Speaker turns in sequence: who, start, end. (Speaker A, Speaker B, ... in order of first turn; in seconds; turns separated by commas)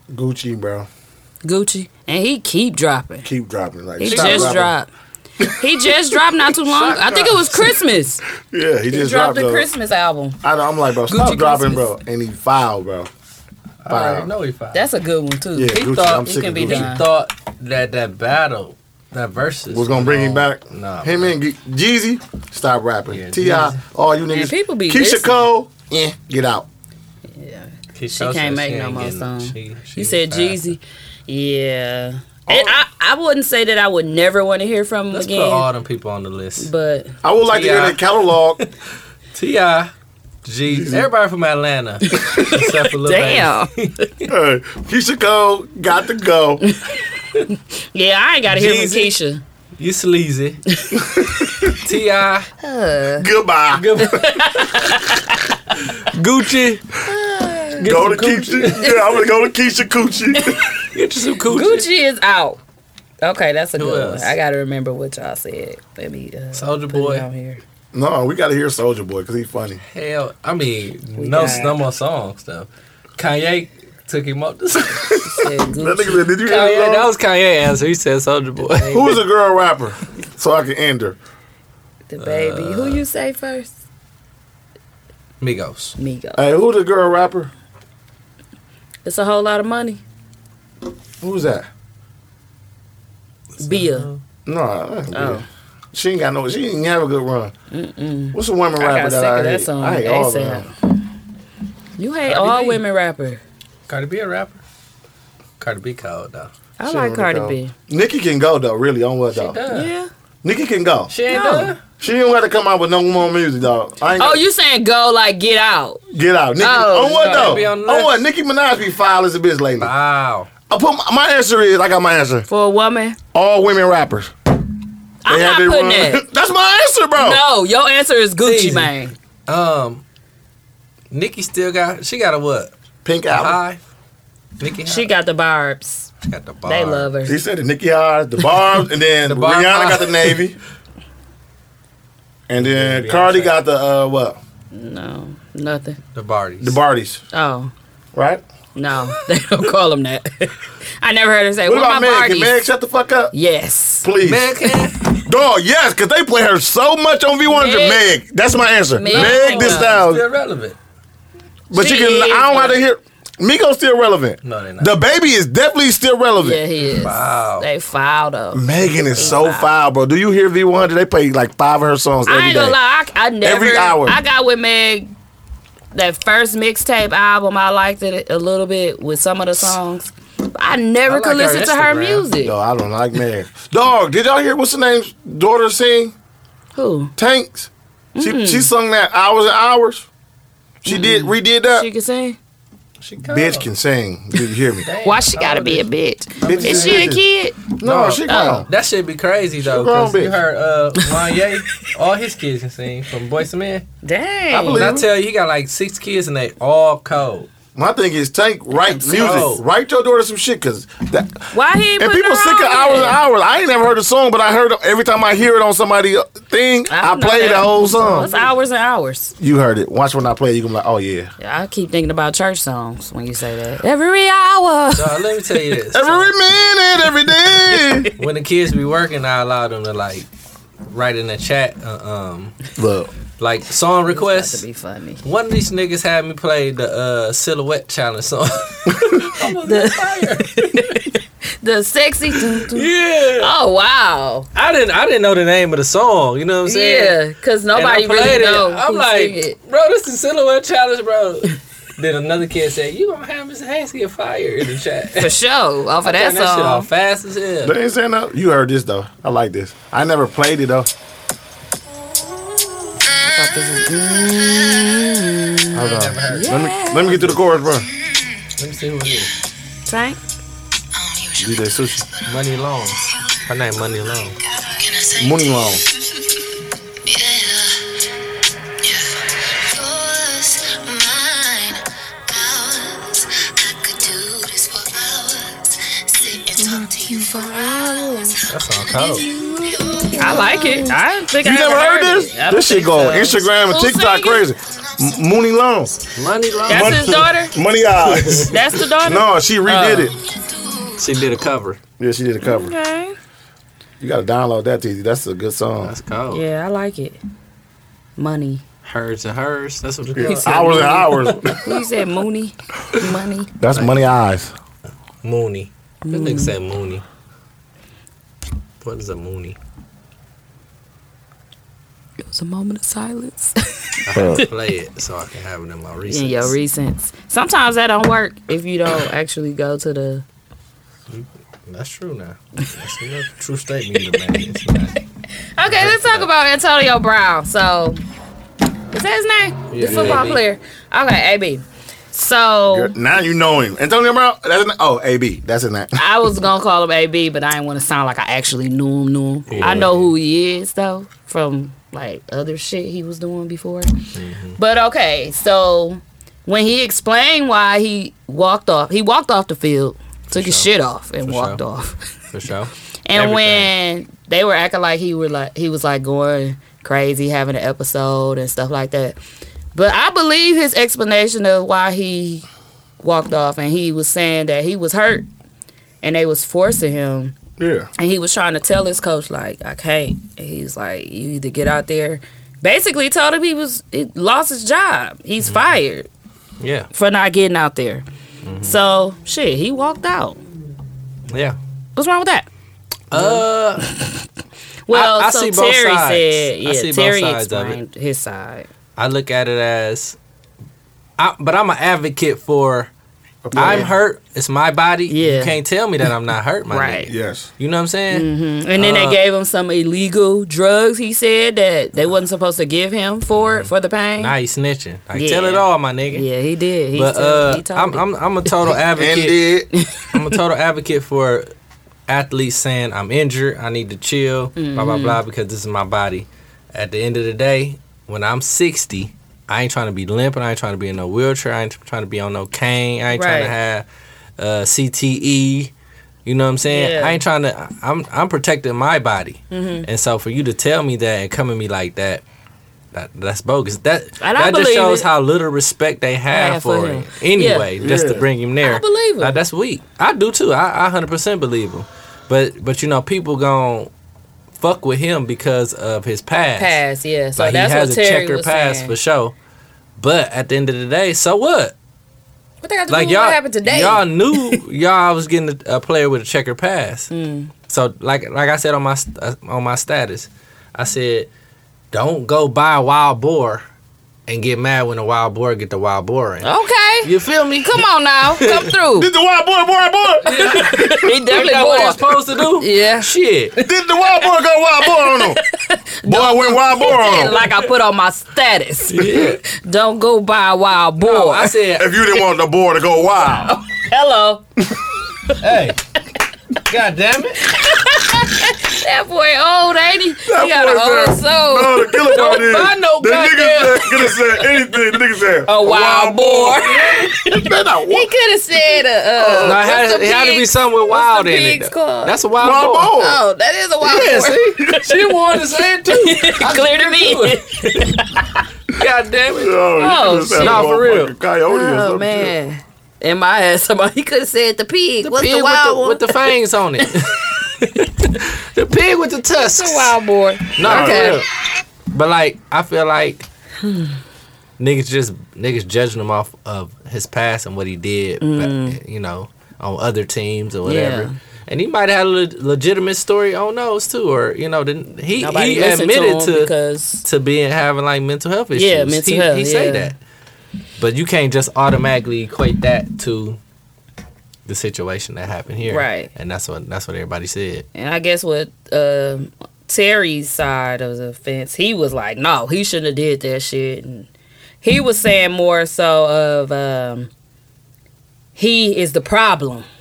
Speaker A: 0.1-0.9, Speaker B: 1.4-3.3, Speaker A: 3.2-4.7, Speaker B: 4.0-4.9, Speaker C: 4.1-4.6, Speaker A: 5.4-5.9, Speaker B: 5.6-8.2, Speaker A: 6.7-7.2, Speaker C: 6.8-7.4, Speaker A: 8.5-9.7, Speaker B: 8.9-10.4, Speaker A: 10.4-13.1, Speaker B: 11.1-11.9, Speaker C: 13.8-14.9, Speaker A: 13.9-14.3, Speaker B: 14.7-17.0, Speaker A: 15.6-16.9, Speaker C: 15.7-21.4, Speaker A: 19.7-26.7, Speaker C: 23.1-23.8, Speaker B: 24.3-25.4, Speaker B: 27.3-35.7, Speaker C: 27.9-30.7, Speaker A: 32.5-32.8, Speaker C: 35.1-36.7, Speaker B: 36.6-37.2, Speaker A: 37.2-38.6, Speaker C: 37.4-38.7, Speaker C: 39.3-39.9, Speaker C: 40.4-44.3, Speaker A: 40.7-41.1, Speaker B: 42.1-43.7, Speaker A: 44.3-46.6, Speaker B: 46.6-49.4, Speaker C: 48.5-49.1, Speaker C: 49.8-50.6, Speaker B: 50.8-51.5, Speaker A: 51.0-51.7, Speaker C: 51.7-52.5, Speaker B: 52.6-53.3, Speaker A: 53.2-54.2, Speaker C: 53.7-54.8, Speaker B: 54.0-55.4, Speaker C: 55.9-56.8, Speaker B: 57.0-57.9, Speaker C: 57.8-59.0, Speaker A: 57.8-60.7, Speaker C: 60.8-61.9, Speaker B: 61.5-62.6, Speaker B: 63.2-67.6, Speaker C: 63.8-64.3, Speaker C: 66.5-67.3, Speaker A: 67.9-69.8, Speaker C: 69.9-75.2, Speaker B: 71.2-71.8, Speaker B: 75.2-76.3, Speaker A: 75.8-77.1, Speaker C: 76.4-79.2, Speaker A: 78.9-81.2, Speaker B: 82.1-83.7, Speaker C: 82.2-83.0, Speaker C: 85.4-86.0, Speaker B: 86.0-86.4, Speaker A: 86.4-87.5, Speaker B: 89.0-90.0, Speaker A: 91.2-91.7, Speaker C: 93.6-94.2, Speaker B: 93.6-94.1, Speaker A: 94.5-97.5, Speaker B: 95.1-95.5, Speaker B: 97.7-100.7, Speaker A: 98.3-100.7, Speaker B: 102.0-103.4, Speaker C: 102.3-102.8, Speaker C: 103.9-104.6, Speaker C: 105.6-106.5, Speaker B: 106.8-107.7, Speaker A: 106.8-109.6, Speaker C: 109.3-109.9, Speaker B: 109.7-110.1, Speaker A: 110.4-111.1, Speaker C: 111.1-111.8, Speaker B: 111.3-111.7, Speaker A: 112.0-114.4, Speaker B: 114.2-116.0, Speaker A: 116.1-119.9, Speaker B: 116.6-117.7, Speaker C: 117.1-118.2, Speaker C: 119.8-120.5, Speaker A: 120.7-122.5, Speaker B: 122.5-123.2, Speaker A: 123.3-124.3, Speaker B: 125.2-126.2, Speaker A: 125.3-127.4, Speaker B: 127.2-129.2, Speaker C: 128.4-128.9, Speaker C: 129.5-130.0, Speaker C: 131.1-132.7, Speaker A: 133.1-133.6, Speaker C: 133.3-133.8, Speaker C: 134.6-135.1, Speaker B: 134.8-136.1, Speaker C: 136.2-137.1, Speaker B: 136.7-137.4, Speaker A: 137.2-140.6, Speaker C: 139.2-140.4, Speaker A: 142.5-144.4, Speaker C: 142.6-143.5, Speaker B: 144.7-146.0, Speaker C: 146.2-146.8, Speaker A: 146.6-147.2, Speaker B: 147.3-147.7, Speaker A: 148.1-148.4, Speaker B: 148.8-152.6, Speaker A: 151.6-153.3, Speaker B: 153.3-154.1, Speaker A: 154.0-154.6, Speaker C: 154.2-155.2, Speaker A: 155.3-160.2, Speaker B: 157.5-158.1, Speaker B: 158.9-160.0, Speaker C: 159.1-160.8, Speaker A: 161.7-166.6, Speaker B: 161.7-162.8, Speaker C: 164.4-164.9, Speaker B: 166.4-169.7, Speaker C: 166.8-167.7, Speaker A: 168.5-172.8, Speaker B: 172.3-175.1, Speaker A: 173.4-174.2, Speaker B: 175.9-182.6, Speaker C: 181.1-182.3, Speaker A: 182.4-186.1, Speaker B: 186.8-187.1, Speaker A: 187.2-190.1, Speaker B: 188.2-188.7, Speaker A: 190.8-191.9, Speaker B: 190.9-192.4, Speaker C: 193.0-193.7, Speaker A: 193.2-194.9, Speaker C: 194.8-195.8, Speaker B: 195.0-197.6, Speaker C: 196.4-197.1, Speaker A: 196.4-197.2, Speaker A: 197.8-198.7, Speaker C: 197.8-203.8, Speaker B: 198.3-198.7, Speaker A: 199.6-200.4, Speaker B: 204.0-205.0, Speaker A: 204.5-205.1, Speaker C: 204.7-207.5, Speaker A: 207.8-218.3, Speaker B: 208.7-209.4, Speaker C: 209.1-209.6, Speaker B: 211.5-213.2, Speaker B: 216.9-219.3, Speaker A: 219.4-221.3, Speaker B: 221.4-225.4, Speaker C: 224.9-226.3, Speaker A: 225.9-228.1, Speaker B: 227.7-228.1, Speaker C: 228.2-230.3, Speaker C: 230.9-232.6, Speaker A: 232.8-233.1, Speaker C: 233.4-234.6, Speaker B: 234.1-235.2, Speaker C: 235.2-241.1, Speaker B: 239.5-244.5, Speaker C: 242.6-243.5, Speaker C: 244.6-247.2, Speaker B: 246.7-249.6, Speaker C: 247.7-255.3, Speaker B: 255.2-256.9, Speaker C: 256.0-257.8, Speaker A: 257.6-260.9, Speaker B: 263.1-267.2, Speaker C: 265.7-267.4, Speaker A: 265.7-267.9, Speaker C: 268.6-269.3, Speaker B: 269.9-270.2, Speaker A: 271.4-272.1, Speaker C: 272.2-275.1, Speaker A: 275.1-275.8, Speaker C: 277.2-277.7, Speaker C: 278.9-281.7, Speaker C: 283.7-284.8, Speaker B: 286.6-288.4, Speaker C: 288.4-289.3, Speaker B: 289.3-294.5, Speaker A: 291.4-296.0, Speaker C: 296.1-297.2, Speaker B: 296.7-297.6, Speaker A: 296.7-300.2, Speaker C: 298.1-298.5, Speaker B: 298.4-300.1, Speaker C: 301.0-301.8, Speaker A: 302.0-302.7, Speaker B: 302.4-303.2, Speaker A: 304.0-305.9, Speaker C: 305.8-306.4, Speaker B: 306.3-307.2, Speaker B: 308.2-308.6, Speaker C: 308.8-311.6, Speaker A: 310.1-311.7, Speaker B: 310.2-313.5, Speaker A: 313.6-314.5, Speaker C: 313.7-314.0, Speaker C: 315.2-317.0, Speaker B: 316.1-316.6, Speaker C: 318.8-319.6, Speaker B: 322.2-324.4, Speaker C: 324.1-326.6, Speaker A: 324.1-324.4, Speaker B: 326.1-330.2, Speaker C: 331.1-335.0, Speaker B: 335.6-338.0, Speaker C: 335.7-336.3, Speaker B: 338.9-342.9, Speaker C: 339.7-340.4, Speaker A: 339.9-340.2, Speaker A: 342.7-346.0, Speaker B: 346.0-353.9, Speaker C: 349.5-350.1, Speaker A: 349.5-349.9, Speaker C: 354.1-354.6, Speaker B: 354.6-362.0, Speaker C: 360.3-360.7, Speaker C: 361.2-361.6, Speaker C: 362.3-363.7, Speaker B: 363.1-369.2, Speaker B: 369.7-372.5, Speaker B: 373.0-375.3, Speaker B: 376.0-377.4, Speaker A: 377.6-377.9, Speaker B: 378.0-386.1, Speaker C: 386.6-386.9, Speaker B: 386.9-388.1, Speaker C: 388.4-388.8, Speaker B: 388.6-390.4, Speaker C: 391.3-391.6, Speaker B: 392.0-392.5, Speaker C: 393.1-393.9, Speaker B: 393.1-394.1, Speaker B: 394.9-398.7, Speaker C: 394.9-397.8, Speaker C: 399.0-400.2, Speaker C: 401.2-402.9, Speaker A: 403.4-403.9, Speaker C: 403.6-409.2, Speaker B: 403.6-403.9, Speaker B: 405.1-405.6, Speaker B: 406.7-407.1, Speaker A: 407.1-407.5, Speaker B: 408.1-414.3, Speaker C: 413.4-416.3, Speaker B: 415.1-418.0, Speaker C: 416.9-419.5, Speaker A: 418.9-419.7, Speaker B: 419.8-420.2, Speaker C: 420.1-421.5, Speaker C: 422.1-433.9, Speaker B: 424.6-425.2, Speaker B: 433.1-433.6, Speaker C: 434.4-435.7, Speaker C: 436.3-442.2, Speaker B: 436.7-437.2, Speaker B: 439.5-439.9, Speaker C: 442.9-453.9, Speaker B: 444.2-445.1, Speaker B: 446.3-447.7, Speaker A: 447.8-448.3, Speaker B: 448.6-449.4, Speaker C: 454.6-456.8, Speaker B: 456.6-458.9, Speaker C: 457.4-459.4, Speaker C: 460.0-461.8, Speaker B: 462.6-464.6, Speaker C: 462.9-467.1, Speaker B: 467.1-467.5, Speaker C: 467.7-471.3, Speaker C: 471.9-473.6, Speaker C: 474.3-476.5, Speaker B: 476.4-479.1, Speaker C: 477.0-478.7, Speaker A: 479.0-481.1, Speaker C: 480.2-483.6, Speaker B: 480.3-483.7, Speaker A: 483.6-485.4, Speaker B: 484.8-491.6, Speaker A: 486.1-487.4, Speaker C: 488.9-489.4, Speaker C: 491.0-491.9, Speaker A: 491.8-493.6, Speaker B: 493.5-494.4, Speaker C: 495.4-495.8, Speaker C: 496.6-497.5, Speaker B: 497.5-502.7, Speaker A: 500.2-508.1, Speaker C: 502.1-504.4, Speaker B: 505.5-512.2, Speaker C: 506.6-507.1, Speaker A: 509.2-509.6, Speaker C: 509.4-513.0, Speaker A: 512.4-513.2, Speaker B: 512.9-515.1, Speaker C: 513.8-517.9, Speaker B: 515.9-518.4, Speaker C: 518.7-519.6, Speaker A: 519.3-522.3, Speaker B: 519.8-520.8, Speaker C: 520.4-521.1, Speaker B: 521.5-527.1, Speaker C: 525.0-530.0, Speaker B: 529.3-531.2, Speaker C: 530.6-531.3, Speaker A: 530.6-531.2, Speaker C: 531.9-533.3, Speaker C: 534.6-546.5, Speaker B: 538.2-538.8, Speaker B: 540.6-541.1, Speaker B: 545.2-547.0, Speaker C: 547.0-550.0, Speaker B: 548.5-549.9, Speaker C: 550.8-553.4, Speaker C: 554.5-557.7, Speaker B: 555.7-556.1, Speaker B: 557.7-564.1, Speaker B: 564.6-567.1, Speaker B: 568.4-569.7